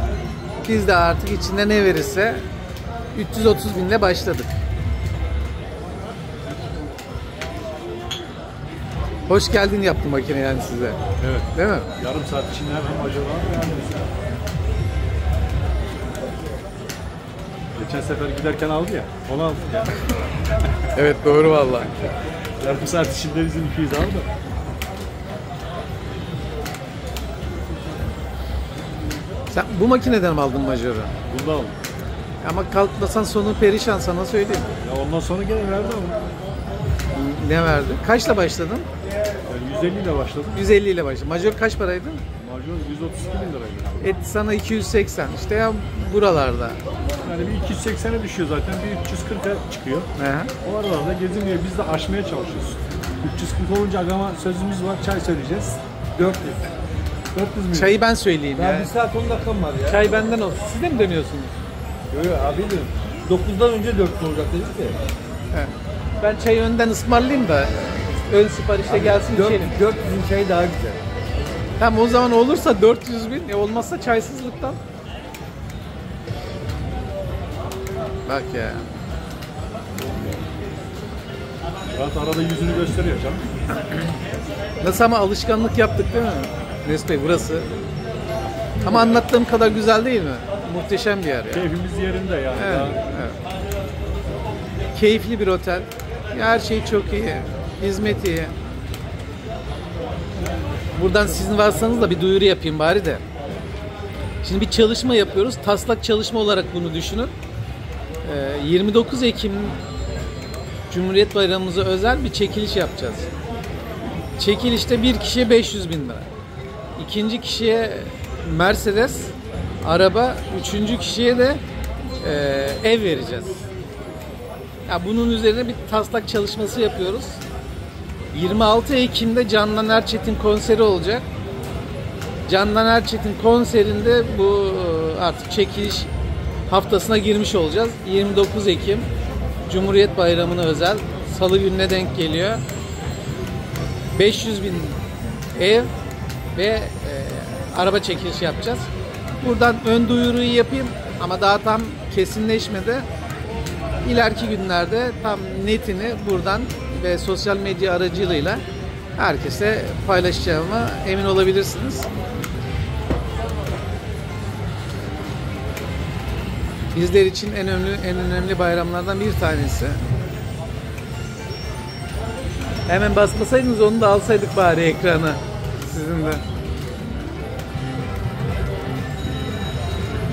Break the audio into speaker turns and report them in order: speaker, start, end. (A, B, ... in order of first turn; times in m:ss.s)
0:00.6-0:02.4 A
0:03.1-0:04.5 A
0:09.3-0:11.0 A
0:11.2-0:14.1 B
0:11.5-0:11.9 A
0:17.8-0:19.9 B
0:20.9-0:21.9 A
0:22.6-0:24.3 B
0:29.5-0:31.1 A
0:31.3-0:31.8 B
0:32.4-0:34.7 A
0:34.8-0:36.2 B
0:37.1-0:38.9 A
0:39.5-0:40.6 B
0:40.6-0:42.2 A
0:42.4-0:44.1 B
0:44.0-0:46.8 A
0:47.2-0:50.1 B
0:50.2-0:50.5 A
0:50.6-0:55.8 B
0:56.2-0:56.6 C
0:57.3-0:58.0 B
0:57.7-0:58.9 A
0:58.6-1:00.1 C
0:59.9-1:01.5 A
1:02.1-1:05.0 C
1:05.5-1:09.8 A
1:08.9-1:11.0 C
1:11.8-1:14.8 A
1:18.3-1:18.9 A
1:21.9-1:23.6 B
1:24.8-1:27.7 A
1:28.8-1:31.7 A
1:31.5-1:33.0 B
1:32.5-1:33.4 A
1:34.9-1:38.5 A
1:41.0-1:43.2 A
1:44.4-1:47.3 A
1:48.2-1:49.8 A
1:50.9-1:53.3 A
1:54.4-1:56.3 A
1:57.0-2:01.6 A
2:02.2-2:03.6 A
2:04.9-2:07.4 A
2:08.3-2:11.2 A
2:12.5-2:16.1 A
2:16.7-2:19.1 A
2:19.7-2:22.6 A
2:24.1-2:25.0 A
2:25.6-2:25.9 A
2:26.6-2:28.9 A
2:29.4-2:33.1 A
2:34.0-2:38.6 A
2:39.2-2:42.1 A
2:46.9-2:50.0 A
2:52.9-2:56.4 A